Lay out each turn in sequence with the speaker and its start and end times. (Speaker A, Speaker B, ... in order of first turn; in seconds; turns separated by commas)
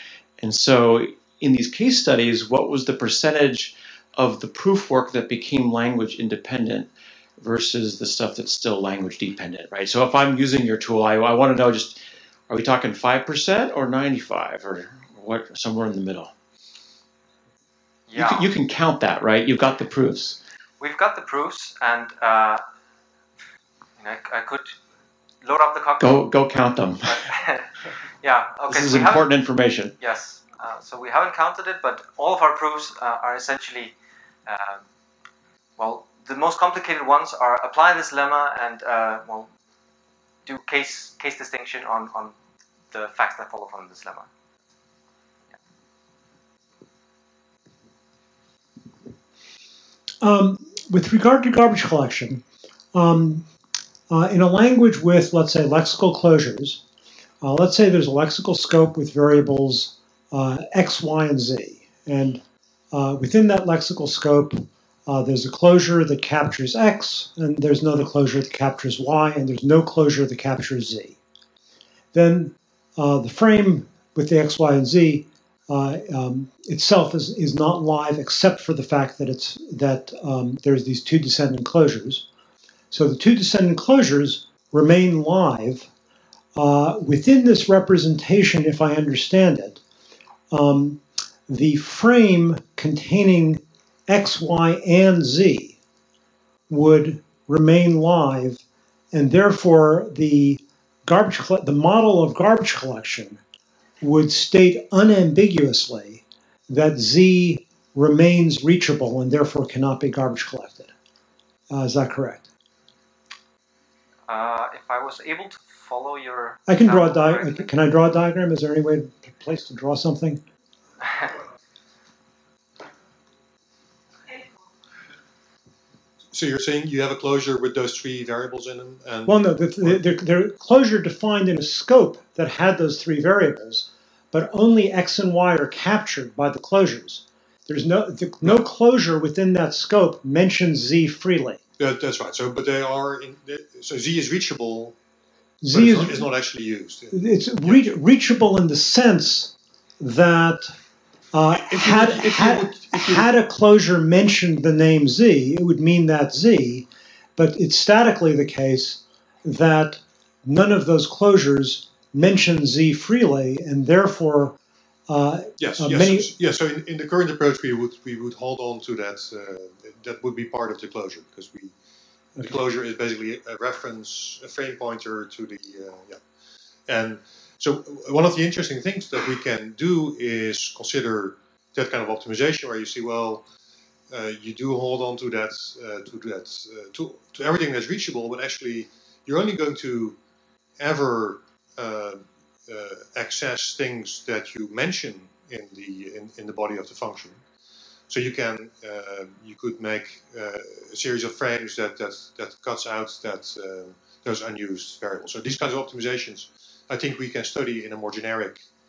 Speaker A: 0.4-16.3, Speaker B: 18.1-18.5, Speaker A: 18.1-20.4, Speaker B: 20.8-22.6, Speaker B: 24.0-24.8, Speaker B: 25.4-26.3, Speaker A: 26.0-27.1, Speaker B: 27.0-29.2, Speaker A: 28.7-29.9, Speaker B: 30.0-33.9, Speaker B: 34.5-34.8, Speaker B: 35.8-39.5, Speaker B: 40.5-42.3, Speaker B: 42.9-44.3, Speaker C: 50.2-52.4, Speaker C: 52.9-53.4, Speaker C: 54.1-56.8, Speaker C: 57.4-71.2, Speaker C: 72.1-82.2, Speaker C: 82.9-85.9, Speaker C: 86.5-89.8, Speaker C: 90.5-95.7, Speaker C: 96.7-103.4, Speaker C: 104.0-110.9, Speaker C: 111.7-112.5, Speaker B: 114.3-117.7, Speaker C: 116.7-120.4, Speaker D: 126.3-130.0, Speaker C: 129.2-141.6, Speaker D: 141.8-144.9, Speaker C: 145.6-146.3, Speaker D: 145.7-147.8, Speaker C: 147.1-150.7, Speaker C: 151.3-164.6, Speaker D: 151.6-153.2, Speaker C: 165.1-166.3, Speaker D: 165.6-171.7, Speaker D: 172.4-176.2, Speaker D: 176.9-183.4, Speaker D: 184.1-190.2, Speaker D: 190.8-197.4, Speaker D: 198.1-208.6